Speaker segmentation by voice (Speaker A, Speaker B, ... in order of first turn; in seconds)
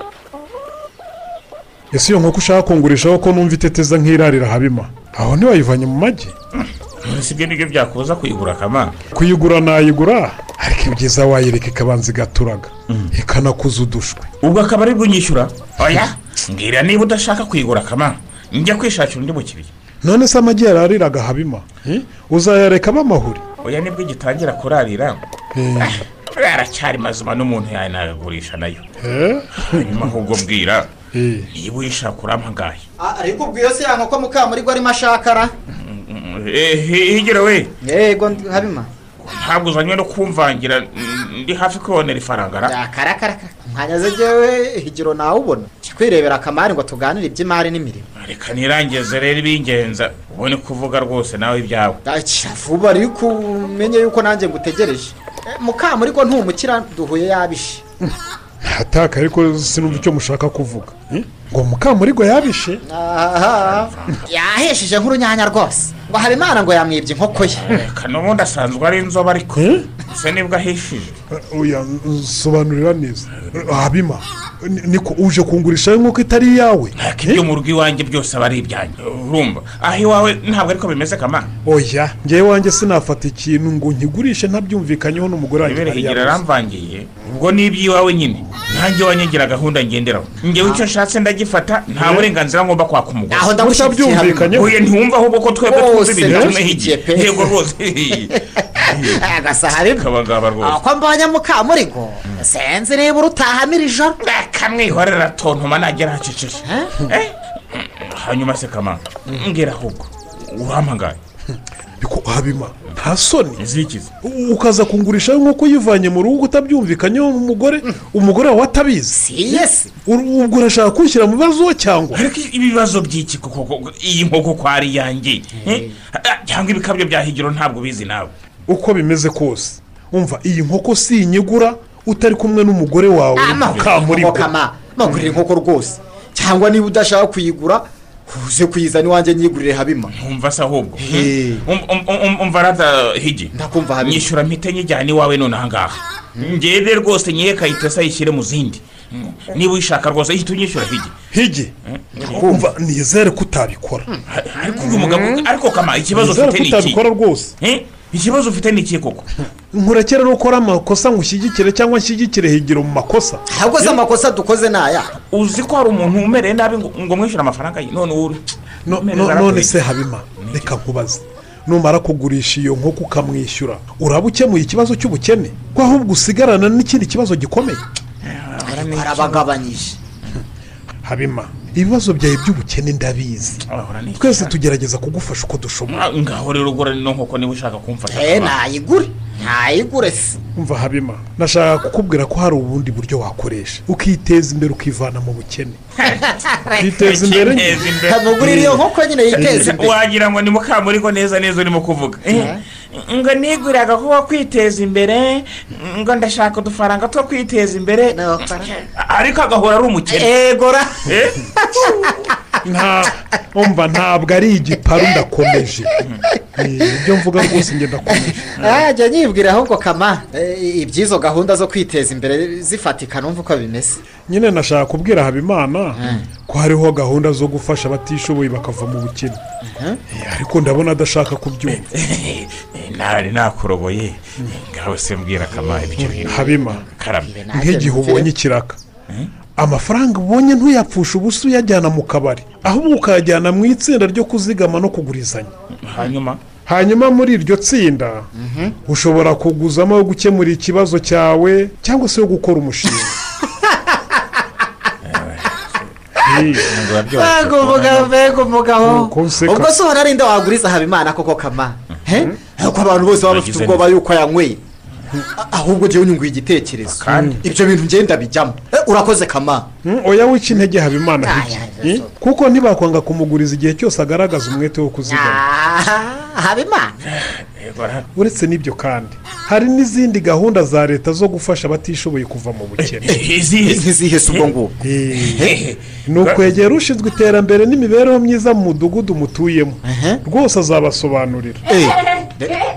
Speaker A: 1.9-6.3, 9.1-14.3, 20.0-23.4, 25.6-26.0, 29.0-29.9, 31.1-31.5, 58.6-62.8, 69.5-69.8, 71.3-77.4, 81.7-86.4, 92.0-92.3, 93.6-94.7, 96.3-96.5, 112.0-113.6, 114.2-122.2, 128.7-134.5, 151.3-151.7, 152.2-154.1, 154.8-155.4, 156.1-157.5, 159.7-163.9, 168.9-177.8, 181.0-183.6, 184.2-186.0, 190.6-195.8, 196.8-197.9, 198.4-198.7, 212.7-215.9, 216.6-218.5, 224.3-229.4, 230.1-231.8, 236.3-236.8, 237.5-238.8, 239.6-245.5, 246.7-248.3, 248.9-253.1, 256.3-256.7, 258.8-259.7, 267.1-267.4, 269.9-275.4, 278.2-283.1, 284.8-285.5, 286.1-291.6
Speaker B: 6.6-8.9, 14.4-19.7, 23.6-25.2, 25.9-28.8, 29.6-30.9, 31.6-32.8, 35.8-37.7, 39.2-42.8, 48.2-52.0, 63.7-64.1, 67.5-71.2, 77.0-81.5, 85.6-93.5, 94.5-100.8, 104.2-111.2, 113.6-114.1, 122.1-128.3, 140.2-151.2, 152.2-152.4, 154.3-157.0, 157.6-159.3, 165.3-169.8, 170.4-170.7, 178.2-179.5, 183.7-184.5, 185.9-188.6, 197.0-198.7, 199.3-210.3, 211.1-211.3, 231.9-237.5, 245.9-246.4, 255.1-255.6, 256.6-258.2, 263.2-263.9, 267.0-267.4, 277.1-278.1, 282.8-284.5, 285.4-286.4
Speaker C: 33.0-35.5, 37.8-38.9, 42.6-48.1, 52.0-57.8, 62.9-67.6, 93.3-94.6, 95.7-97.5, 98.1-100.1, 100.6-104.2, 106.7-106.9, 119.1-119.9, 125.6-125.9, 133.4-140.1, 141.0-141.6, 143.6-144.3, 152.2-152.6, 154.1-154.9, 163.5-165.1, 178.7-180.0, 188.1-190.4, 196.3-196.8, 198.1-199.9, 202.3-202.6, 208.1-208.7, 210.1-211.1, 211.8-212.2, 218.5-224.0, 226.0-226.2, 229.6-230.0, 235.7-238.3, 248.3-248.8, 253.6-254.4, 257.1-264.6, 265.4-269.7, 271.2-272.1, 275.1-276.9, 283.1-284.8, 289.9-290.2, 291.7-292.6